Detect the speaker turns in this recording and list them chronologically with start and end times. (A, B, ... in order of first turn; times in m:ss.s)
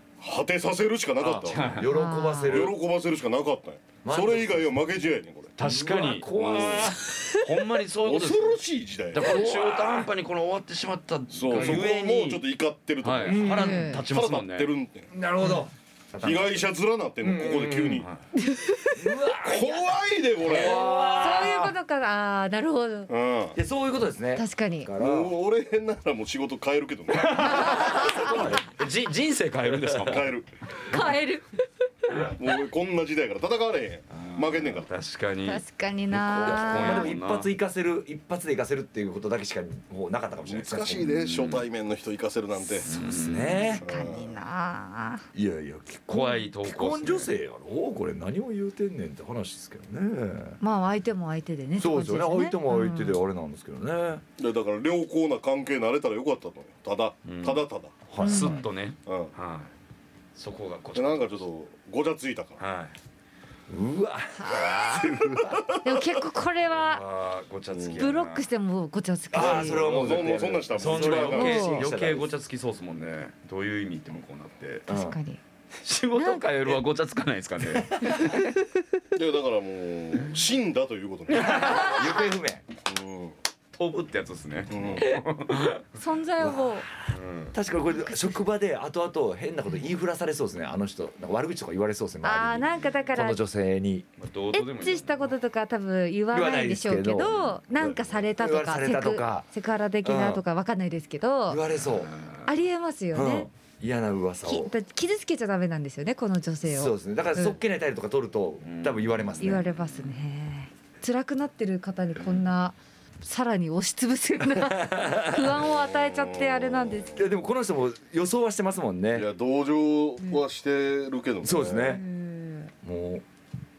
0:00.2-0:01.8 A
0:01.2-0:02.8 B
0:01.5-0:01.9 C
0:01.8-0:02.6 D
0:02.4-0:05.6 A
0:04.0-0:04.8 B
0:05.6-0:06.7 C
0:05.6-0:07.2 B
0:06.3-0:07.0 A
0:07.4-0:08.6 C
0:08.0-0:09.5 A
0:09.1-0:12.4 C
0:09.2-0:10.1 B
0:11.3-0:15.1 A
0:11.5-0:11.8 B
0:13.0-0:14.7 C
0:13.2-0:13.9 B
0:13.5-0:14.0 D
0:15.1-0:16.6 B
0:16.2-0:18.1 A
0:17.2-0:18.0 B
0:18.4-0:19.2 D
0:18.9-0:19.9 B
0:19.4-0:20.9 A
0:20.4-0:21.7 B
0:20.7-0:23.1 D
0:20.8-0:21.5 C
0:23.1-0:23.6 A
0:23.5-0:25.3 B
0:24.4-0:24.9 D
0:25.0-0:28.4 A
0:27.2-0:30.3 C
0:27.4-0:28.4 D
0:28.0-0:28.7 B
0:30.0-0:30.5 A
0:30.8-0:31.6 D
0:32.3-0:34.9 A
0:34.7-0:37.5 C
0:35.4-0:37.1 D
0:36.3-0:41.1 B
0:40.4-0:42.9 A
0:41.0-0:41.6 C
0:42.8-0:43.8 C
0:42.8-0:43.8 B
0:43.8-0:44.4 A
0:43.8-0:45.2 D
0:45.3-0:50.6 B
0:46.1-0:47.3 C
0:50.6-0:53.2 D
0:51.8-0:54.2 B
0:54.4-0:57.9 A
0:57.2-0:57.6 C
0:58.1-0:58.6 B
0:58.2-0:58.6 D
0:58.2-0:59.7 C
0:59.0-0:59.3 A
1:00.4-1:01.4 C
1:00.9-1:02.6 A
1:02.6-1:02.9 C
1:03.7-1:05.6 B
1:04.4-1:05.1 D
1:05.0-1:05.8 A
1:05.8-1:07.0 D
1:06.8-1:07.9 B
1:07.6-1:08.4 C
1:07.7-1:08.1 A
1:07.9-1:09.9 D
1:09.3-1:12.3 B
1:09.3-1:11.6 A
1:10.7-1:14.8 C
1:11.4-1:11.8 D
1:14.9-1:15.4 D
1:14.9-1:15.2 B
1:15.8-1:18.2 C
1:16.1-1:16.4 D
1:18.0-1:18.3 B
1:19.1-1:22.0 A
1:21.3-1:22.6 B
1:22.8-1:23.4 A
1:23.7-1:25.8 C
1:24.7-1:25.1 A
1:25.9-1:26.9 D
1:26.4-1:34.1 B
1:27.1-1:27.5 C
1:28.0-1:28.3 D
1:32.2-1:33.4 D
1:34.2-1:35.3 C
1:34.5-1:41.6 D
1:36.3-1:39.5 B
1:37.3-1:37.6 C
1:40.0-1:40.4 B
1:41.5-1:42.2 B
1:41.9-1:42.4 C
1:42.4-1:43.5 D
1:43.1-1:44.7 B
1:44.4-1:47.6 D
1:46.6-1:49.6 B
1:48.6-1:50.1 C
1:49.4-1:57.2 D
1:54.8-1:55.5 B
1:55.6-1:57.2 A
1:57.1-1:59.3 B
1:59.1-2:02.0 A
2:01.4-2:02.0 B
2:01.8-2:02.7 D
2:02.8-2:03.2 B